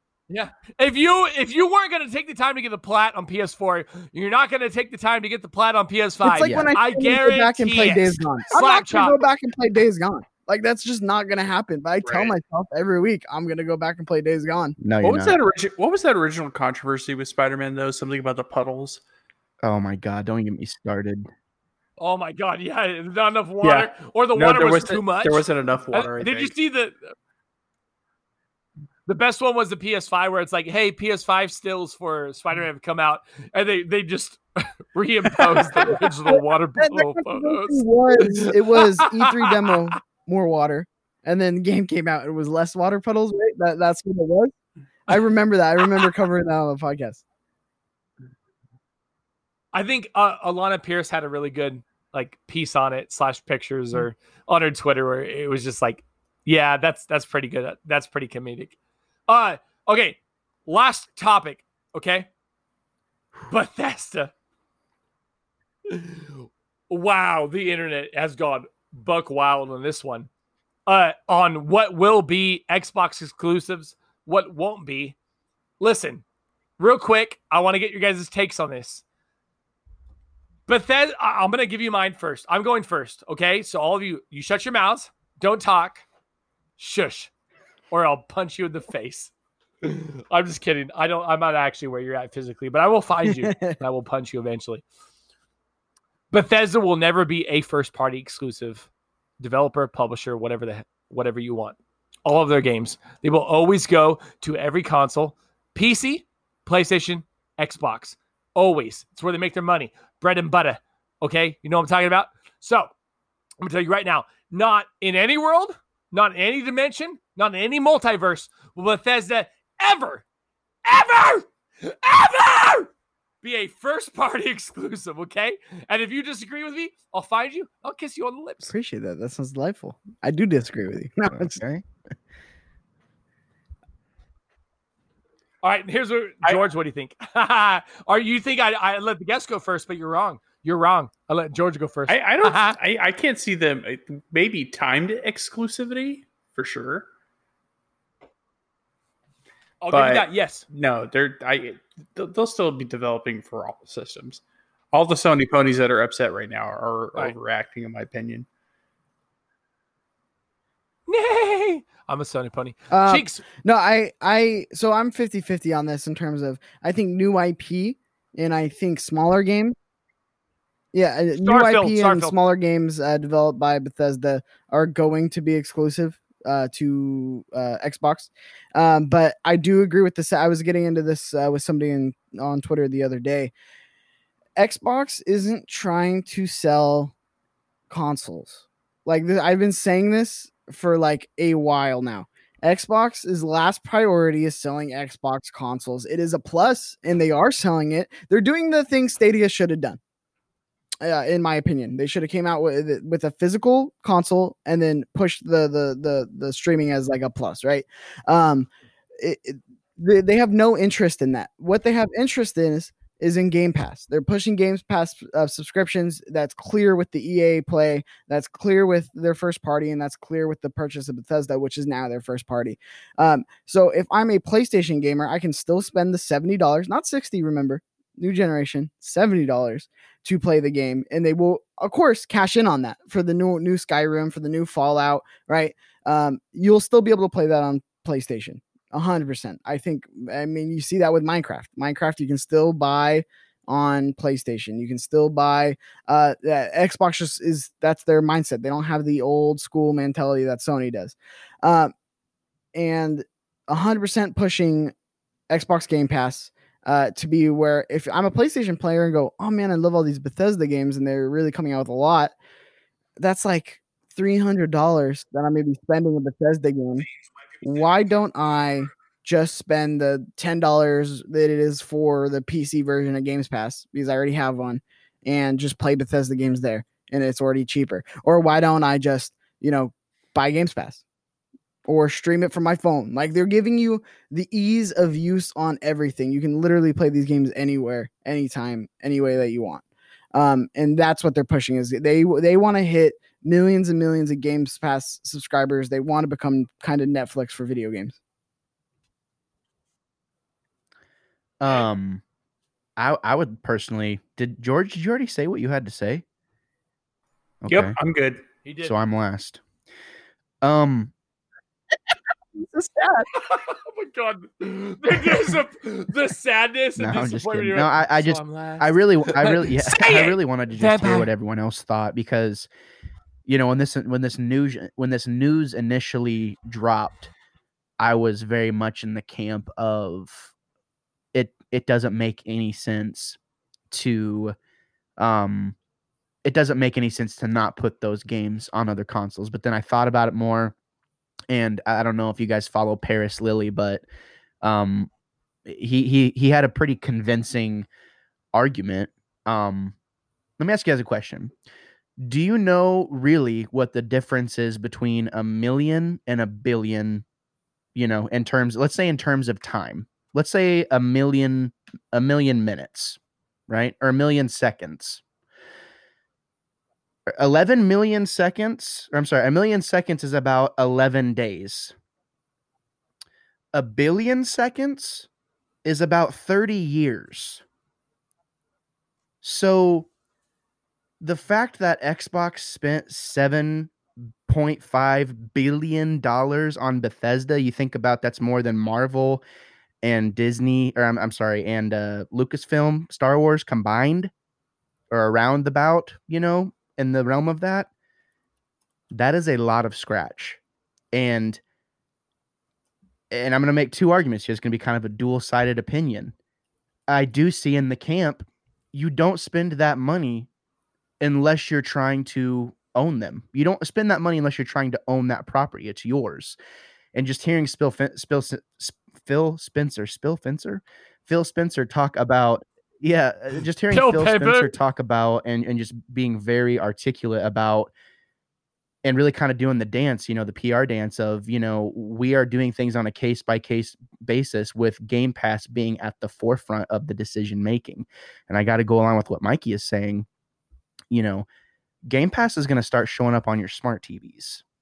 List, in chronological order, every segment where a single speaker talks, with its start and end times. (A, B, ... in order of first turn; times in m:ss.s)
0:00.3-0:09.2 A
0:06.2-0:14.8 B
0:06.4-0:06.7 C
0:12.0-0:12.3 D
0:14.8-0:15.4 C
0:15.0-0:19.0 D
0:19.6-0:21.2 C
0:22.0-0:26.9 A
0:23.6-0:26.5 D
0:29.0-0:39.6 A
0:36.3-0:44.5 B
0:45.1-0:47.2 B
0:49.7-0:58.8 A
0:59.3-1:02.3 A
1:03.5-1:04.3 A
1:05.9-1:10.3 A
1:10.9-1:15.2 A
1:15.8-1:16.2 A
1:16.8-1:19.0 A
1:20.7-1:26.0 A
1:26.8-1:27.3 A
1:27.9-1:29.3 A
1:29.8-1:34.8 A
1:33.3-1:33.8 B
1:36.3-1:38.9 A
1:39.4-1:52.9 A
1:53.6-2:00.2 A
2:00.8-2:02.9 A
2:03.4-2:08.7 A
2:08.6-2:11.6 B
2:11.3-2:11.8 C
2:15.6-2:22.8 A
2:22.1-2:27.1 D
2:29.8-2:30.6 A
2:29.9-2:34.4 D
2:34.9-2:38.4 D
2:41.1-2:43.4 A
2:42.9-2:49.8 B
2:50.9-3:03.5 B
2:51.4-2:52.4 A
3:04.6-3:07.1 B
3:07.9-3:20.0 B
3:21.0-4:11.9 B
4:12.7-4:14.9 B
4:15.5-4:22.3 B
4:23.2-4:27.0 B
4:27.6-4:41.0 B
4:41.8-4:58.2 B
5:01.6-5:02.2 C
5:03.0-5:06.2 C
5:07.6-5:08.0 C
5:07.6-5:08.4 D
5:08.6-5:08.9 A
5:08.8-5:09.6 C
5:10.6-5:11.1 C
5:12.6-5:13.3 B
5:13.3-5:21.3 A
5:17.0-5:22.7 C
5:23.4-5:27.3 C
5:28.0-5:30.5 C
5:31.3-5:33.4 C
5:33.9-5:34.6 C
5:35.2-5:35.8 C
5:36.4-5:40.7 C
5:41.5-5:44.0 C
5:44.6-5:45.1 C
5:45.7-5:47.9 C
5:48.5-5:50.0 C
5:50.6-5:51.5 C
5:52.2-5:57.2 C
5:57.9-6:05.2 C
6:07.4-6:11.9 C
6:13.7-6:15.3 C
6:15.8-6:17.6 C
6:19.4-6:20.1 C
6:21.2-6:23.9 C
6:24.5-6:29.4 C
6:30.0-6:34.3 C
6:35.1-6:37.9 C
6:39.1-6:40.6 C
6:41.1-6:41.6 C
6:43.3-6:46.3 C
6:47.1-6:50.5 C
6:51.2-6:56.6 C
6:57.1-7:07.9 C
7:03.9-7:04.7 A
7:09.0-7:20.2 C
7:21.1-7:21.4 C
7:22.1-7:24.6 C